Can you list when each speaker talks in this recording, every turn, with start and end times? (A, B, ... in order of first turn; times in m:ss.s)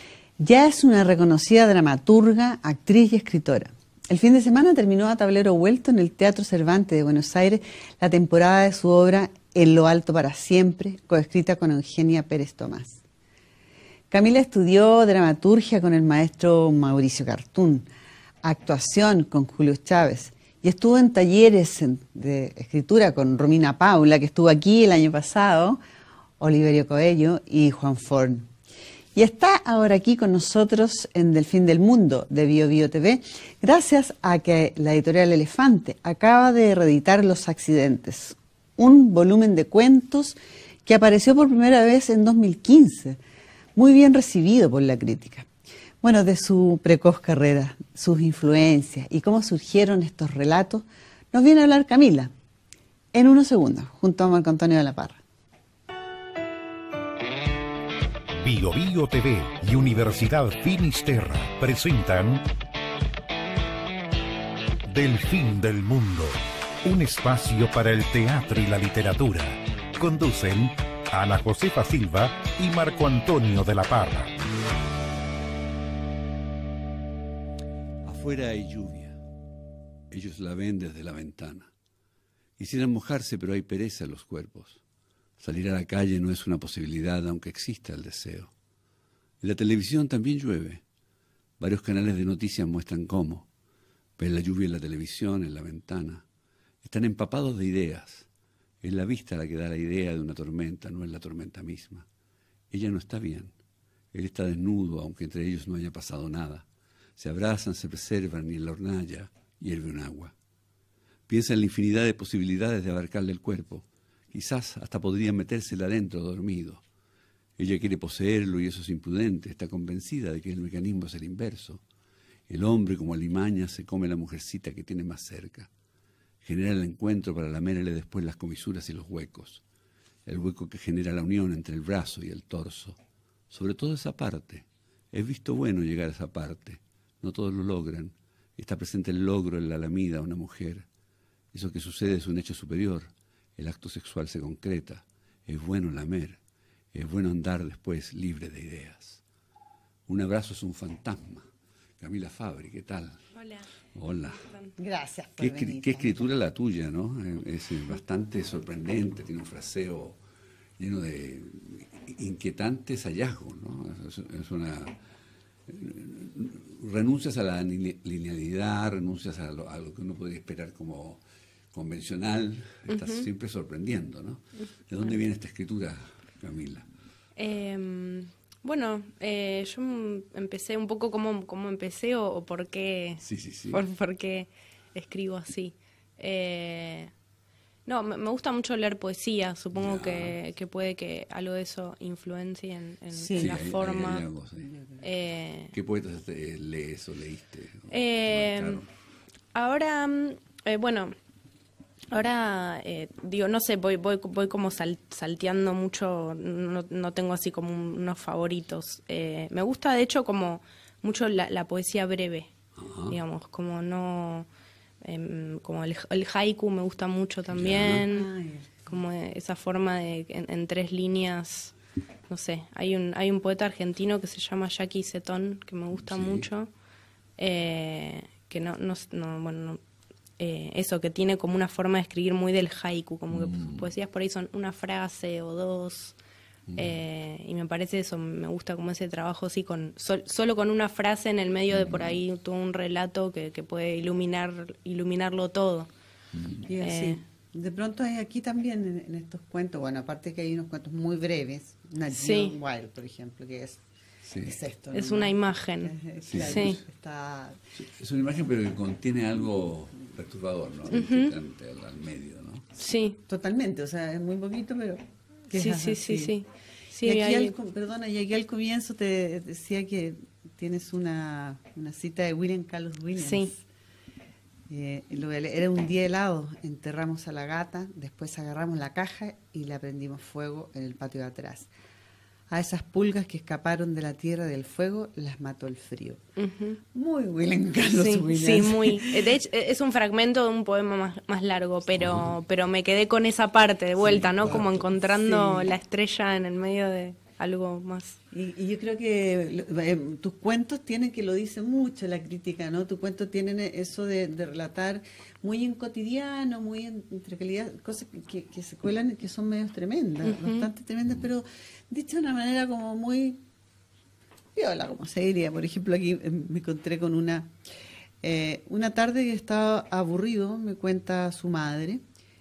0:00.4-0:13.0 A
0:14.1-0:17.8 A
0:18.4-0:25.8 A
0:26.4-0:28.5 A
0:29.1-0:43.2 A
0:43.8-0:45.5 A
0:46.0-0:52.3 A
0:53.1-0:55.2 A
0:58.4-1:02.4 B
1:04.9-1:14.3 B
1:18.0-1:19.2 C
1:20.1-1:21.7 C
1:22.6-1:24.8 C
1:25.4-1:28.5 C
1:29.4-1:30.8 C
1:31.6-1:33.5 C
1:34.2-1:36.2 C
1:36.8-1:38.3 C
1:38.8-1:42.0 C
1:42.7-1:43.5 C
1:44.1-1:46.6 C
1:47.2-1:50.3 C
1:51.3-1:56.8 C
1:57.6-2:01.8 C
2:02.5-2:05.7 C
2:06.4-2:09.6 C
2:10.2-2:13.0 C
2:13.5-2:20.8 C
2:21.5-2:26.4 C
2:26.9-2:29.2 C
2:30.1-2:31.4 C
2:32.0-2:33.2 C
2:33.4-2:33.6 D
2:33.9-2:34.4 C
2:34.8-2:36.2 A
2:35.4-2:40.2 C
2:40.8-2:45.0 C
2:45.7-2:51.2 C
2:51.7-2:56.9 C
2:52.9-2:53.3 D
2:57.4-3:07.1 D
3:03.2-3:03.8 C
3:07.8-3:14.2 D
3:09.7-3:10.4 C
3:13.1-3:13.5 A
3:13.3-3:14.7 C
3:15.0-3:15.7 D
3:15.7-3:18.9 C
3:17.9-3:18.8 D
3:19.5-3:21.1 D
3:22.1-3:32.5 D
3:32.8-3:33.2 C
3:33.1-3:34.5 D
3:35.0-3:38.3 D
3:37.5-3:38.1 C
3:38.1-3:38.9 A
3:38.9-3:41.7 D
3:42.3-3:46.7 D
3:45.9-3:46.5 C
3:47.4-3:49.8 D
3:50.4-3:56.1 D
3:53.3-3:53.9 C
3:56.7-3:56.9 C
3:56.8-4:05.9 D
4:01.7-4:02.2 C
4:06.3-4:06.6 C
4:06.7-4:13.8 A
4:06.8-4:07.2 D
4:12.1-4:12.5 D
4:14.3-4:14.5 C
4:14.4-4:17.6 A
4:14.9-4:16.8 D
4:16.2-4:16.8 C
4:17.8-4:22.8 C
4:20.9-4:21.3 D
4:22.8-4:23.2 D
4:23.3-4:26.3 A
4:25.5-4:27.5 D
4:27.0-4:33.6 A
4:33.2-4:33.5 D
4:34.7-4:41.7 A
4:42.5-4:46.2 A
4:46.4-4:46.8 D
4:46.9-4:49.2 A
4:47.9-4:58.2 D
4:52.0-4:52.3 C
4:54.0-4:55.7 A
4:58.3-5:13.4 A
5:10.2-5:10.7 D
5:14.5-5:17.5 A
5:18.2-5:22.0 A